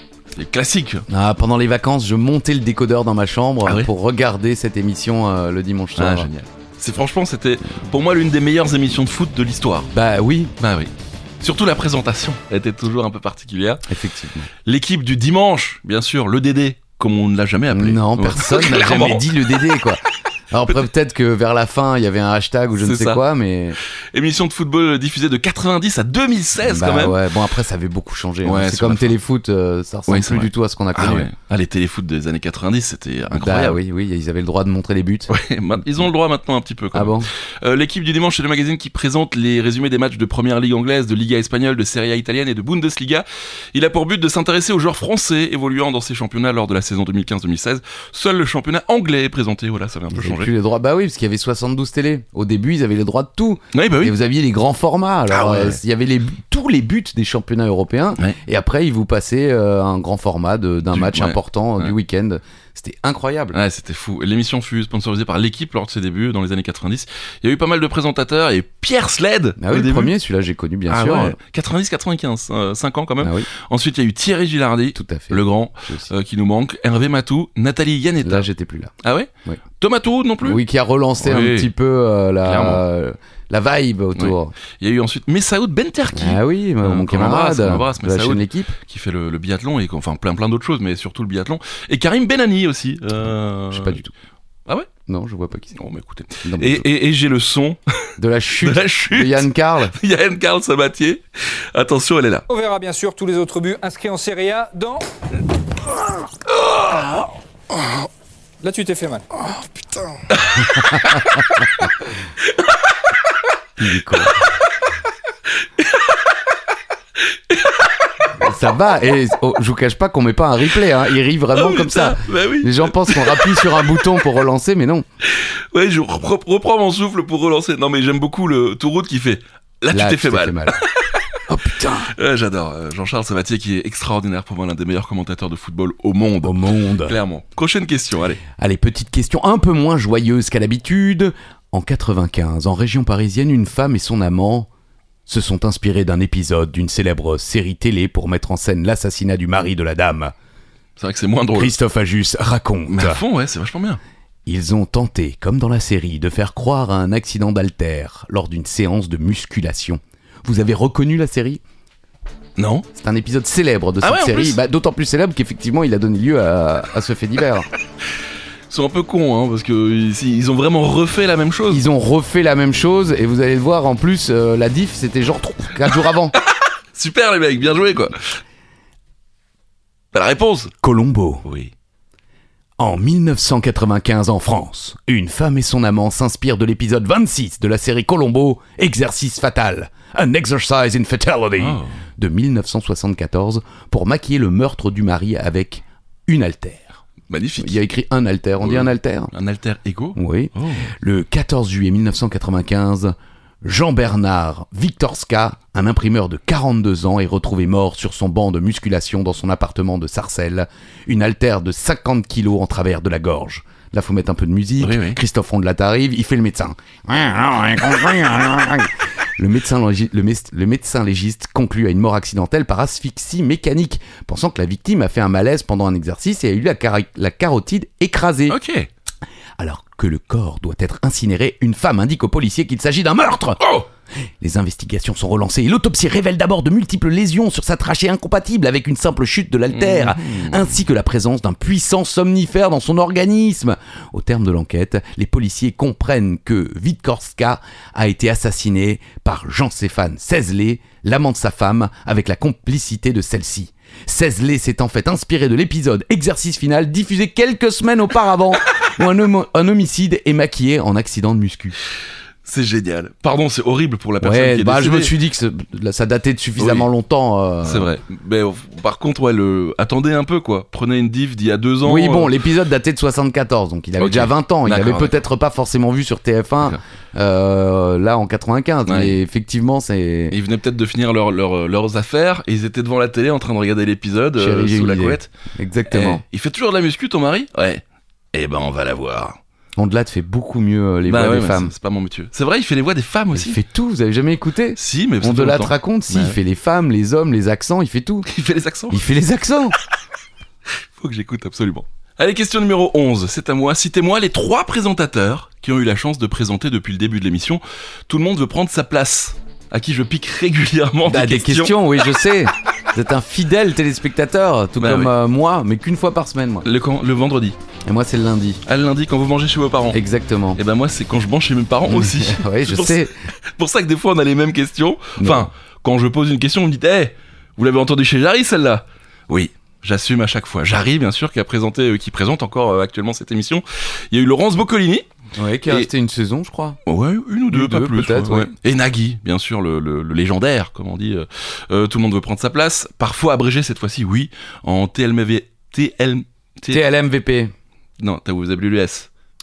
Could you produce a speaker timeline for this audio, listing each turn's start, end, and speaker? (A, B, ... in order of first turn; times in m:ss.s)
0:00.3-0:01.0 A
0:01.1-0:06.3 B
0:06.0-0:09.9 A
0:09.9-0:10.5 B
0:10.6-0:13.8 A
0:13.9-0:14.5 B
0:14.6-0:19.6 A
0:17.7-0:23.8 B
0:22.8-0:23.2 A
0:23.9-0:27.2 A
0:26.6-0:31.3 B
0:28.4-0:29.1 A
0:30.1-0:33.8 A
0:33.3-0:35.3 B
0:35.3-0:50.5 A
0:36.9-0:37.3 B
0:50.1-1:03.6 B
0:53.7-0:54.1 A
0:55.3-0:55.8 A
1:00.9-1:01.9 A
1:03.5-1:10.1 A
1:09.6-1:11.4 B
1:10.9-1:18.5 A
1:13.2-1:13.5 B
1:14.9-1:16.1 B
1:18.2-1:18.9 B
1:19.0-1:20.6 A
1:20.4-1:24.5 B
1:21.2-1:21.7 A
1:22.4-1:22.8 A
1:24.2-1:34.0 A
1:26.1-1:28.7 B
1:33.7-1:34.1 B
1:35.1-1:35.8 B
1:35.7-1:37.8 A
1:36.4-1:36.8 B
1:38.2-1:40.0 B
1:38.6-1:42.4 A
1:42.5-1:45.0 C
1:48.6-1:49.3 C
1:50.3-1:51.4 A
1:50.7-1:51.3 B
1:52.4-1:52.7 A
1:53.8-1:54.4 B
1:55.6-1:56.1 A
1:57.3-1:57.9 A
1:58.4-2:05.0 B
2:01.5-2:04.0 A
2:05.2-2:11.2 A
2:09.9-2:10.8 B
2:11.5-2:12.1 B
2:12.1-2:18.4 A
2:16.4-2:17.2 B
2:18.6-2:24.7 B
2:25.3-2:30.3 B
2:31.0-2:31.7 A
2:31.5-2:33.2 B
2:32.9-2:34.0 A
2:34.4-2:41.6 B
2:42.6-2:42.9 A
2:42.9-2:47.7 B
2:44.0-2:44.6 A
2:48.7-2:51.8 A
2:51.7-2:56.3 B
2:56.5-2:58.4 A
3:00.1-3:00.7 A
3:00.8-3:01.4 B
3:01.4-3:01.7 A
3:02.8-3:17.0 B
3:11.6-3:12.0 A
3:17.3-3:17.8 A
3:17.6-3:19.3 B
3:18.6-3:20.9 A
3:20.2-3:48.6 B
3:34.8-3:35.2 A
3:48.5-3:48.9 A
3:49.6-3:53.6 B
3:53.6-3:53.9 A
3:54.4-4:21.7 B
3:59.7-4:00.8 A
4:22.4-4:25.1 A
4:24.2-4:27.9 B
4:26.6-4:26.9 A
4:27.6-4:32.3 A
4:31.8-4:40.4 B
4:34.0-4:35.2 A
4:38.8-4:39.2 A
4:40.3-4:45.3 A
4:44.4-4:46.2 B
4:45.9-4:49.4 A
4:49.8-4:51.7 B
4:51.1-4:53.6 A
4:53.3-4:58.3 B
4:54.8-4:56.4 A
4:58.2-4:59.0 A
4:58.9-4:59.8 B
5:00.9-5:11.9 A
5:11.1-5:16.6 B
5:14.8-5:15.1 A
5:16.6-5:17.6 A
5:17.8-5:18.6 B
5:18.6-5:20.0 A
5:19.9-5:20.6 B
5:20.5-5:35.1 A
5:21.8-5:23.1 B
5:25.2-5:25.5 B
5:35.4-5:36.8 B
5:36.8-5:46.8 A
5:37.5-5:38.5 B
5:46.7-5:47.5 B
5:48.0-5:49.1 A